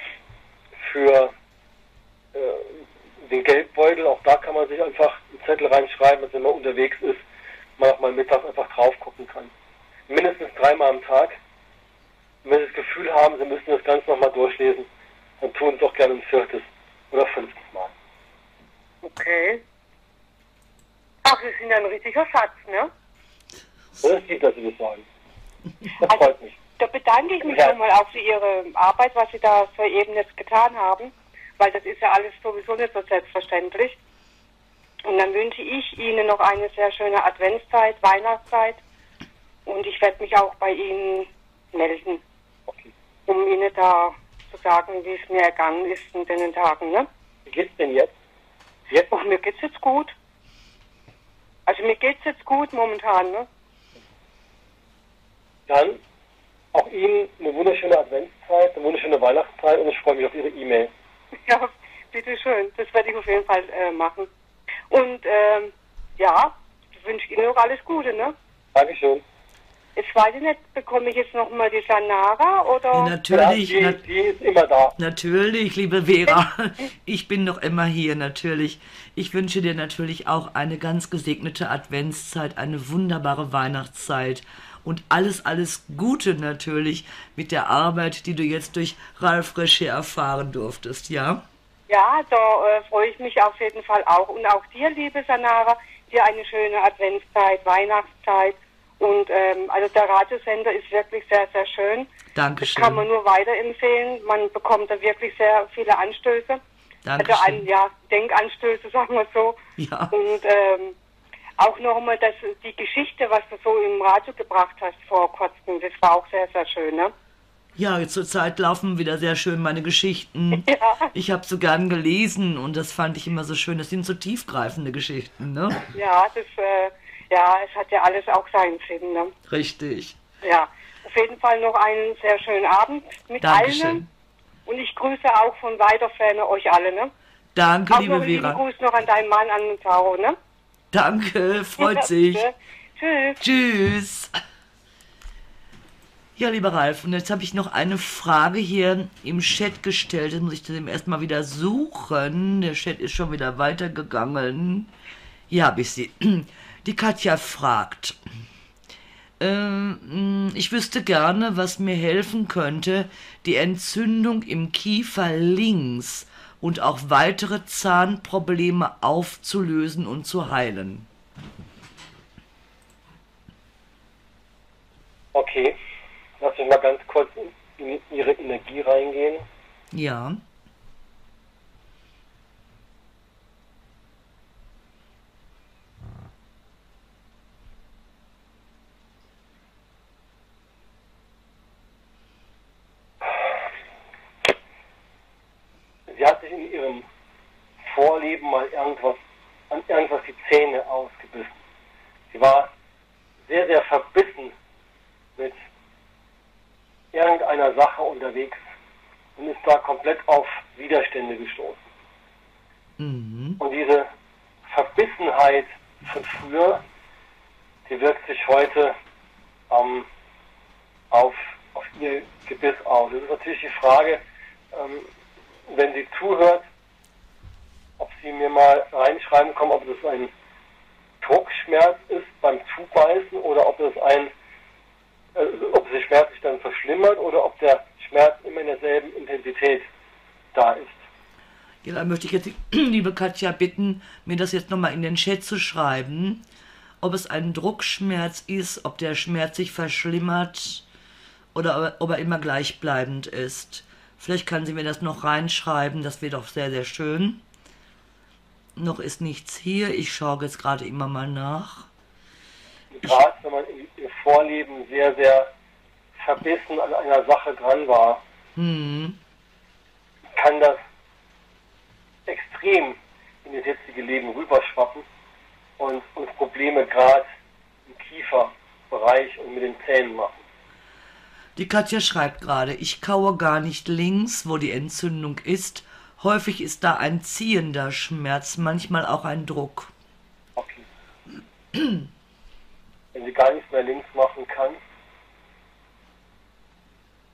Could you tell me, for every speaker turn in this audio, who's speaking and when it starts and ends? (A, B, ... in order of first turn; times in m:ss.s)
0:00.8-0:01.3 A
0:02.3-0:07.2 A
0:07.8-0:09.5 A
0:10.1-0:11.4 A
0:12.4-0:14.9 A
0:15.4-0:17.9 A
0:19.0-0:19.6 B
0:21.2-0:22.9 B
0:24.0-0:25.0 A
0:26.0-0:26.6 A
0:26.0-0:34.0 B
0:27.4-0:27.8 A
0:35.0-0:38.8 B
0:39.7-0:42.2 B
0:43.3-0:47.1 B
0:47.5-0:48.1 A
0:49.1-0:50.2 B
0:51.7-0:53.5 B
0:55.7-0:56.0 A
0:56.7-1:00.9 A
1:01.5-1:04.3 B
1:04.9-1:08.4 B
1:08.8-1:09.2 A
1:10.0-1:13.2 B
1:12.9-1:14.0 C
1:13.3-1:15.0 A
1:15.0-1:31.4 C
1:31.9-1:42.1 B
1:42.3-1:43.1 C
1:42.6-1:46.6 B
1:47.0-1:47.7 C
1:47.2-1:49.6 B
1:49.8-1:50.2 C
1:50.1-1:51.0 B
1:51.6-1:57.1 B
1:57.8-2:05.9 C
2:00.6-2:01.1 B
2:05.9-2:09.3 B
2:09.5-2:10.2 C
2:10.4-2:14.0 B
2:13.4-2:14.1 C
2:14.7-2:17.1 B
2:17.6-2:18.6 C
2:17.9-2:20.4 B
2:20.9-2:22.5 C
2:21.8-2:23.4 B
2:23.4-2:24.3 C
2:26.4-2:34.9 C
2:35.5-2:38.2 C
2:39.4-2:51.1 C
2:55.4-2:55.8 A
2:56.4-2:59.4 A
2:59.9-3:00.4 C
3:16.1-3:17.0 A
3:17.8-3:19.2 A
3:19.7-3:21.6 A
3:22.3-3:22.7 A
3:23.5-3:24.5 A
3:27.1-3:28.6 A
3:29.4-3:31.8 A
3:33.0-3:33.6 C
3:33.6-3:34.1 A
3:34.7-3:36.8 A
3:37.9-3:39.0 A
3:39.7-3:40.1 A
3:41.1-3:44.2 A
3:44.7-3:45.1 A
3:45.7-3:46.6 A
3:48.0-3:50.3 A
3:51.2-3:54.3 A
3:55.4-3:59.8 A
4:00.5-4:01.0 A
4:01.8-4:06.4 C
4:07.0-4:10.8 C
4:11.5-4:17.4 C
4:18.8-4:21.9 C
4:22.9-4:25.5 A
4:26.2-4:28.2 A
4:28.6-4:29.2 C
4:30.4-4:30.8 A
4:32.3-4:35.0 A
4:35.8-4:37.3 A
4:37.9-4:40.4 A
4:41.6-4:49.9 C
4:50.6-4:50.8 A
4:51.7-4:52.1 C
4:53.1-4:54.8 A